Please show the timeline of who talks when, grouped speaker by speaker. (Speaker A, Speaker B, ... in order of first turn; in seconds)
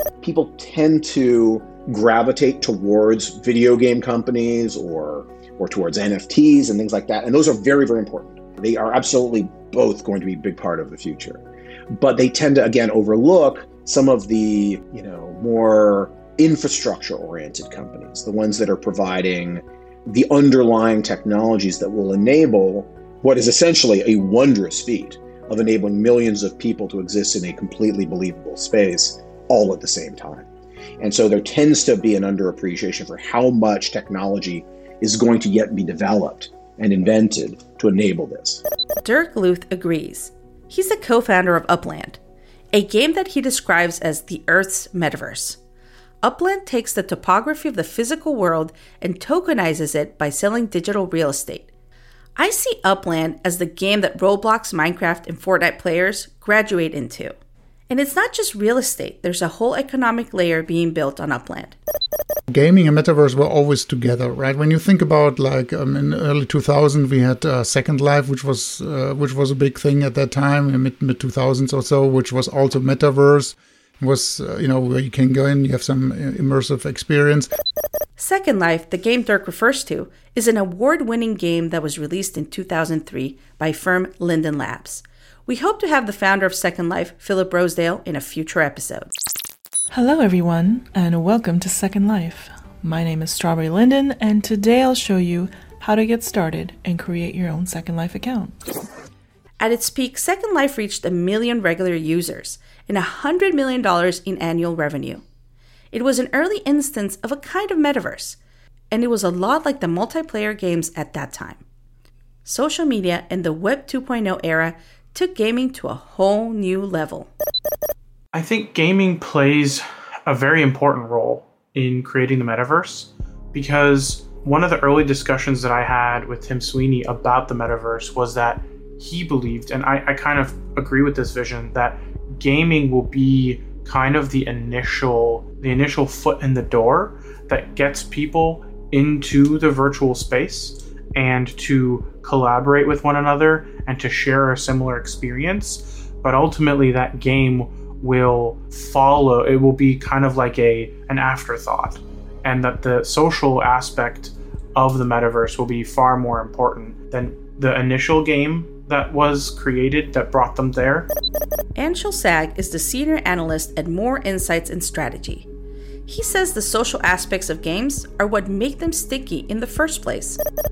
Speaker A: 0.2-11.4, 11.9-30.5, 31.0-38.6
Speaker B: 39.0-42.2, 42.7-45.6, 46.2-51.7, 52.4-57.4, 57.9-61.8, 78.2-89.1, 99.6-105.2, 105.9-108.4, 108.9-111.6, 112.5-117.3, 161.8-165.5, 166.1-170.4
Speaker C: 62.5-77.5
Speaker D: 89.9-98.6
Speaker E: 118.3-161.1